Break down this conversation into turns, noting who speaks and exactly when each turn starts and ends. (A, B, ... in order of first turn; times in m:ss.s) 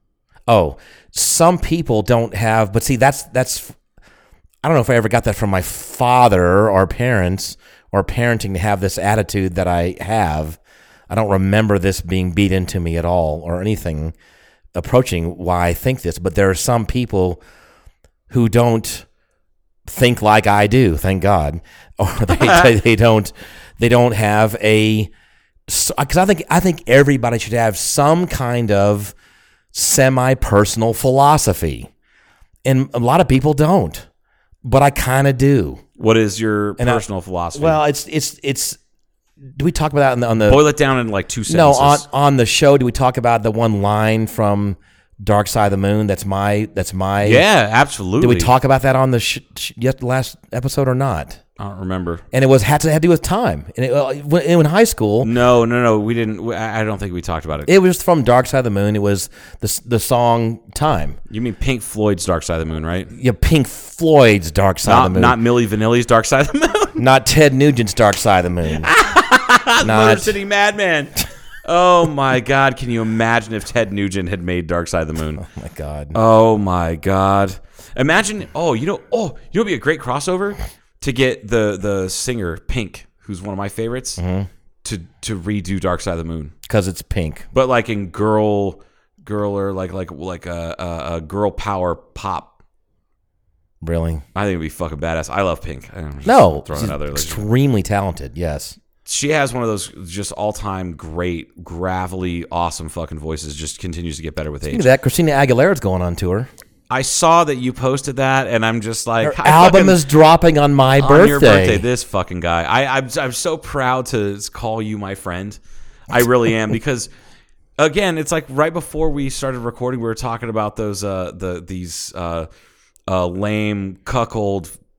0:00.5-0:03.8 A
0:04.6-0:14.2 A
0:14.7-0:17.4 A
0:18.3-0:19.1 A
0:19.9-0:25.1 A
0:25.7-0:29.1 A
0:29.7-0:31.9 A
0:32.6-0:34.1 A
0:34.6-0:35.8 A
0:36.0-0:37.8 B
0:36.8-0:37.0 A
0:37.6-0:38.8 A
0:39.5-0:40.6 A
0:40.5-0:42.1 B
0:41.5-0:47.5 A
0:47.2-0:48.5 B
0:48.2-0:51.4 A
0:51.6-0:52.2 B
0:52.3-0:55.3 A
0:55.2-0:57.7 B
0:57.7-1:01.2 A
1:01.3-1:03.1 B
1:03.1-1:05.4 A
1:04.8-1:07.0 B
1:07.0-1:08.9 A
1:08.7-1:15.4 B
1:09.8-1:10.4 A
1:15.4-1:16.2 A
1:16.1-1:24.2 B
1:24.2-1:24.5 A
1:24.8-1:26.5 B
1:26.7-1:27.5 A
1:27.5-1:32.5 B
1:33.8-1:34.2 A
1:34.4-1:37.5 B
1:36.2-1:38.8 A
1:39.0-1:44.9 B
1:44.7-1:46.5 A
1:46.9-1:50.0 B
1:49.2-1:51.9 A
1:51.0-1:55.6 B
1:56.1-1:57.1 B
1:57.8-2:02.5 B
2:03.1-2:04.7 B